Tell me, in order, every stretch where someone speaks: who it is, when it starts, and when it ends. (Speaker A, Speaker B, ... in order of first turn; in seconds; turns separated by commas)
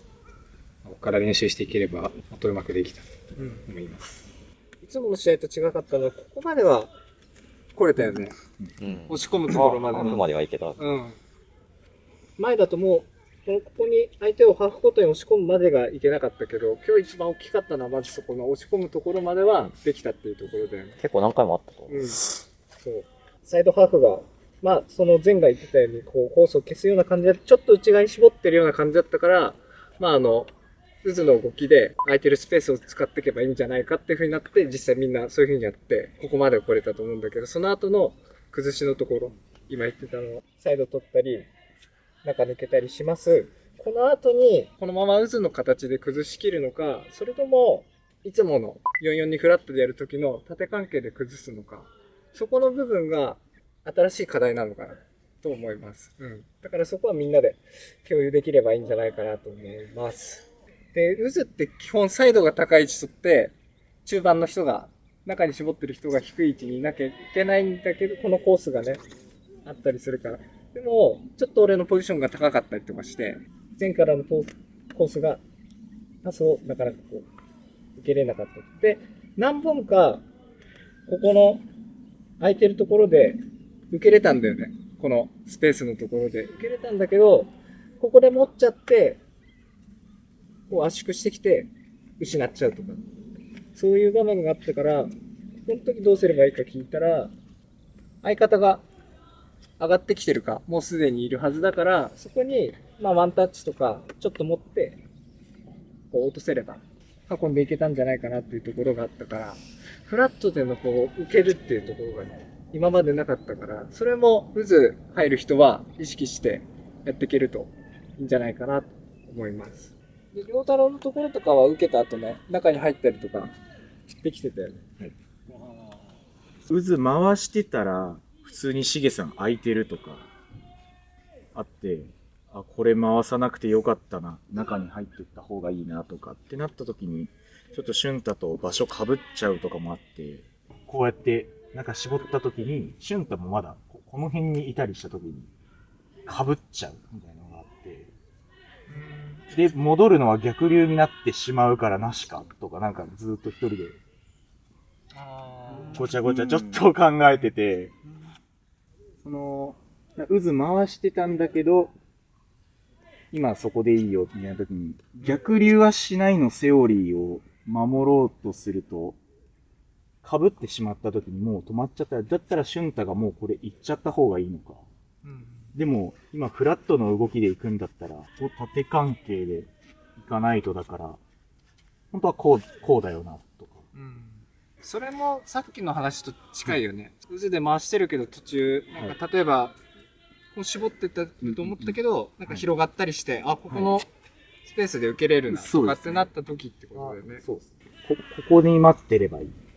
Speaker A: 0.8-4.2, Speaker B: 3.4-3.6, Speaker B: 4.8-6.9, Speaker B: 7.7-8.3, Speaker C: 8.8-10.8, Speaker B: 9.1-10.2, Speaker B: 10.8-11.2, Speaker B: 12.4-21.0, Speaker C: 21.0-22.0, Speaker B: 21.9-30.5, Speaker B: 31.0-41.5, Speaker B: 42.2-63.5, Speaker B: 64.0-69.0, Speaker B: 69.6-75.4, Speaker B: 76.2-77.3, Speaker B: 78.0-80.2, Speaker B: 81.1-81.6, Speaker B: 82.4-83.4, Speaker B: 83.9-89.2, Speaker B: 90.7-93.0, Speaker B: 93.7-95.1, Speaker B: 95.7-97.3, Speaker B: 98.2-98.8, Speaker B: 99.8-105.0, Speaker B: 106.1-123.5, Speaker B: 124.1-124.8, Speaker D: 126.7-130.3, Speaker D: 131.5-145.5, Speaker D: 146.2-148.1, Speaker B: 148.9-149.4, Speaker D: 149.5-154.0, Speaker A: 155.4-155.9, Speaker B: 155.7-156.0, Speaker D: 155.9-157.9, Speaker D: 159.2-161.9, Speaker D: 163.3-169.2, Speaker D: 170.2-174.8, Speaker B: 175.2-175.7, Speaker D: 175.7-181.2, Speaker D: 182.1-183.8, Speaker B: 183.9-189.8, Speaker B: 190.5-194.1, Speaker B: 194.6-197.4, Speaker D: 196.9-199.6